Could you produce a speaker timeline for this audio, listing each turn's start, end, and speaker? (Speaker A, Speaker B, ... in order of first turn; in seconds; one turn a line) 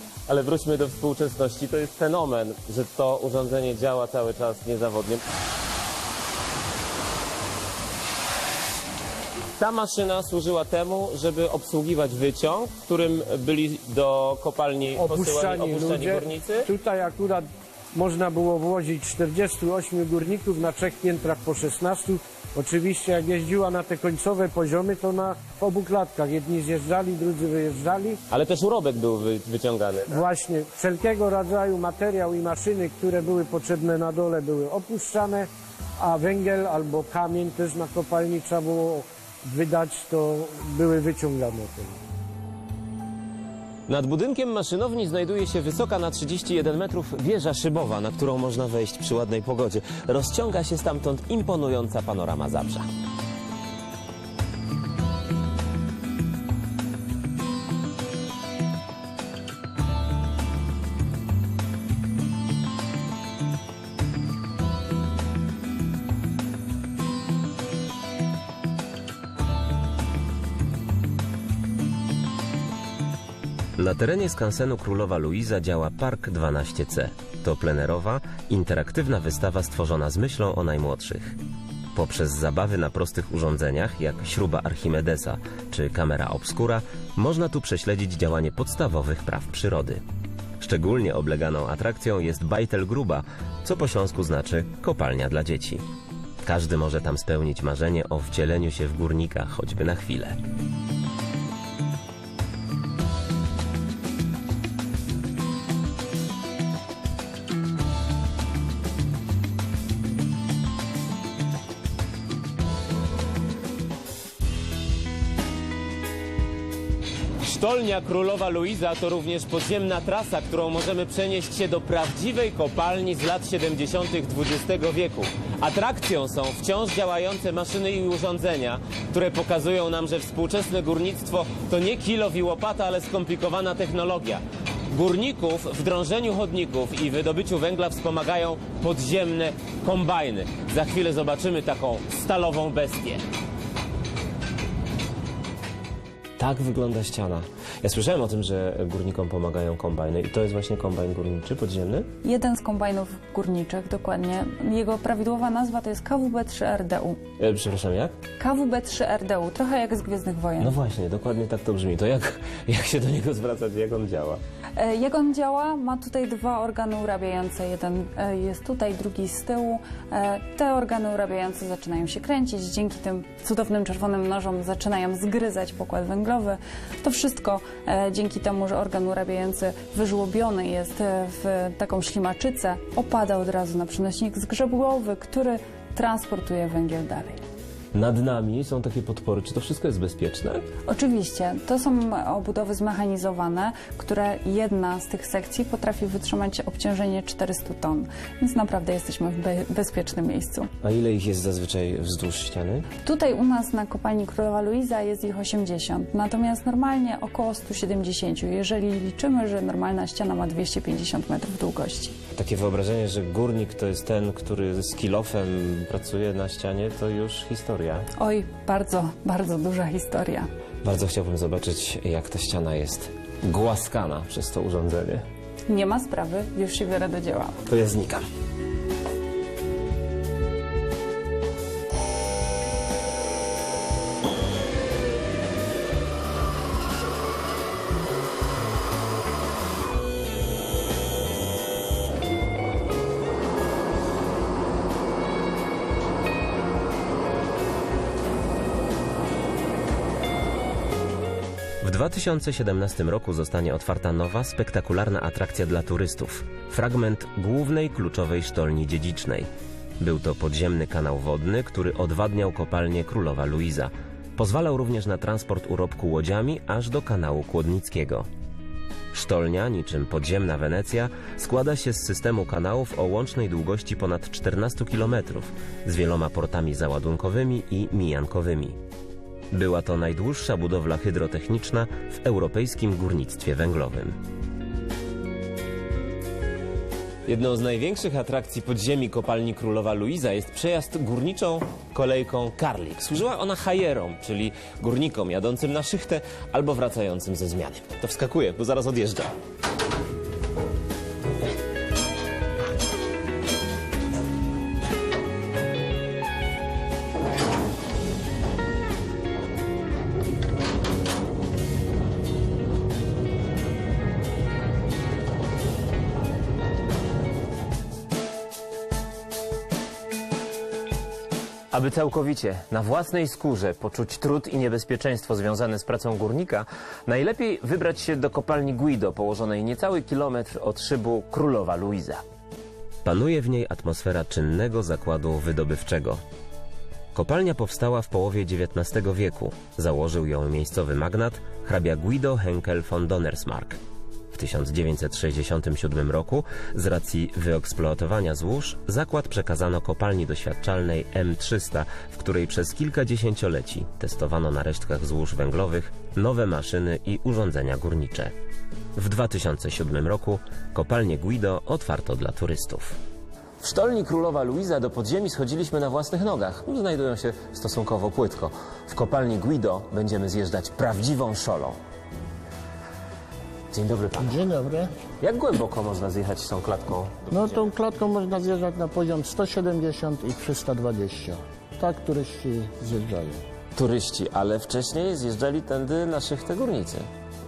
Speaker A: 0.3-5.2
Speaker A: 9.6-16.7
Speaker B: 14.9-28.2
Speaker A: 28.3-30.2
Speaker B: 30.1-42.0
Speaker A: 43.9-52.9
Speaker C: 73.8-81.4
Speaker C: 81.9-90.0
Speaker C: 90.6-95.8
Speaker C: 96.4-100.4
Speaker A: 117.4-143.2
Speaker A: 146.4-152.1
Speaker D: 152.2-157.2
Speaker A: 157.4-158.2
Speaker D: 158.4-160.8
Speaker A: 160.6-164.4
Speaker D: 164.8-187.4
Speaker A: 187.9-190.7
Speaker D: 190.9-200.7
Speaker A: 200.8-202.9
Speaker D: 203.0-212.2
Speaker A: 212.3-218.1
Speaker D: 218.2-220.5
Speaker A: 220.8-225.2
Speaker D: 225.7-227.6
Speaker A: 227.7-228.2
Speaker C: 251.8-259.5
Speaker C: 260.0-268.3
Speaker C: 269.1-278.8
Speaker C: 279.5-284.2
Speaker A: 287.3-299.3
Speaker A: 321.7-332.2
Speaker C: 333.0-336.2
Speaker C: 337.1-343.8
Speaker C: 344.3-358.3
Speaker C: 358.9-363.0
Speaker A: 363.6-371.8
Speaker A: 373.7-374.4
Speaker E: 374.2-374.9
Speaker A: 375.2-377.7
Speaker E: 377.3-383.4
Speaker A: 383.8-387.1